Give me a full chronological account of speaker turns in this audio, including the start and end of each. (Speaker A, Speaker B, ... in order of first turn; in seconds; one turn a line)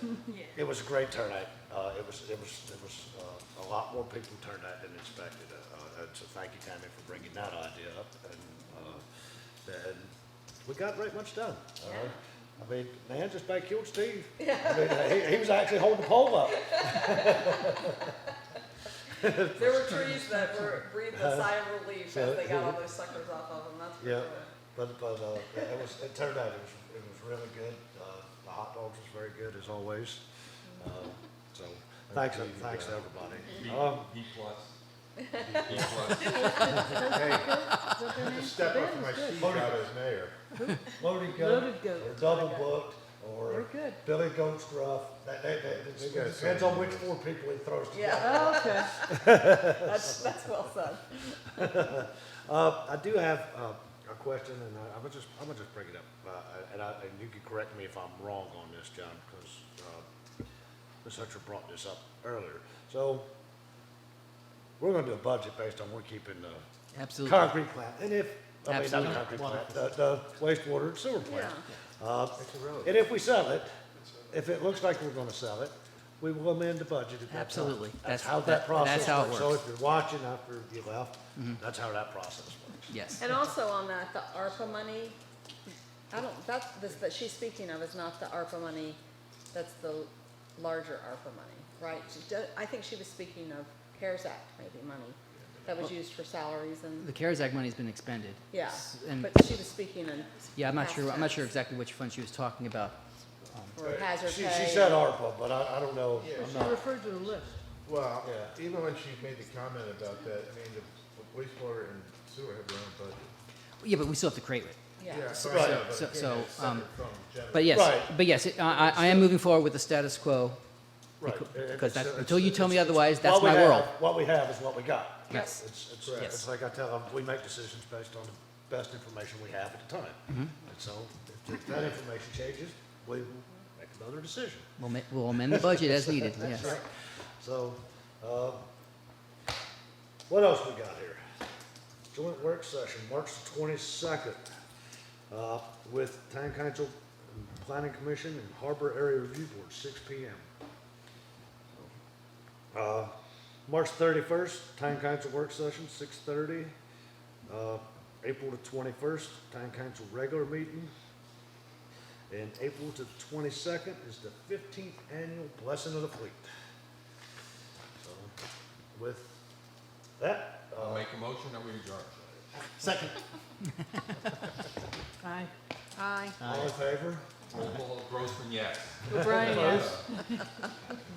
Speaker A: 0.5-9.0
Speaker A: 9.7-10.1
Speaker A: 10.6-18.1
Speaker B: 11.8-12.1
Speaker B: 14.4-15.3
Speaker B: 16.5-18.1
Speaker A: 19.1-20.3
Speaker B: 19.6-24.5
Speaker A: 21.1-22.8
Speaker A: 24.0-30.2
Speaker A: 30.8-34.1
Speaker C: 32.1-33.5
Speaker D: 33.5-34.8
Speaker C: 35.4-36.0
Speaker D: 35.6-36.9
Speaker B: 36.1-36.6
Speaker E: 36.4-39.5
Speaker C: 37.0-40.4
Speaker A: 39.3-40.1
Speaker E: 40.6-42.7
Speaker A: 40.9-50.1
Speaker E: 43.5-44.0
Speaker C: 45.7-47.1
Speaker B: 47.9-51.6
Speaker E: 48.2-48.9
Speaker A: 51.6-60.0
Speaker A: 61.0-63.3
Speaker A: 64.8-66.6
Speaker F: 66.9-67.5
Speaker A: 67.2-73.7
Speaker F: 68.7-69.9
Speaker B: 71.2-71.6
Speaker C: 72.4-73.0
Speaker A: 74.3-82.9
Speaker F: 77.3-79.6
Speaker F: 82.9-83.2
Speaker B: 83.2-85.2
Speaker B: 86.1-89.0
Speaker B: 89.5-97.1
Speaker F: 97.0-99.4
Speaker B: 98.5-101.5
Speaker F: 100.6-103.8
Speaker B: 103.8-105.0
Speaker C: 103.8-104.1
Speaker A: 104.2-106.8
Speaker C: 106.2-106.7
Speaker E: 106.4-107.6
Speaker C: 107.8-113.3
Speaker A: 108.2-108.5
Speaker F: 113.8-114.8
Speaker B: 115.0-115.4
Speaker C: 115.1-118.1
Speaker F: 115.3-116.9
Speaker A: 115.5-115.8
Speaker F: 117.5-120.6
Speaker A: 117.7-118.1
Speaker C: 118.9-119.2
Speaker A: 121.2-134.7
Speaker F: 121.2-123.9
Speaker B: 125.3-125.6
Speaker C: 126.0-126.4
Speaker F: 126.2-126.5
Speaker F: 134.8-136.8
Speaker A: 135.5-136.9
Speaker A: 137.4-138.7
Speaker A: 140.3-141.2
Speaker A: 142.1-144.4
Speaker A: 145.3-150.5
Speaker A: 152.7-153.1
Speaker A: 153.7-156.7
Speaker A: 157.5-160.9
Speaker A: 162.3-166.4
Speaker A: 168.0-168.3
Speaker A: 168.9-169.4
Speaker A: 170.2-171.1
Speaker D: 170.8-172.4
Speaker A: 172.6-173.2
Speaker E: 175.2-175.5
Speaker B: 176.0-176.4
Speaker F: 176.4-176.7
Speaker A: 176.4-177.3
Speaker D: 177.5-180.1
Speaker E: 179.0-180.3
Speaker A: 179.1-180.0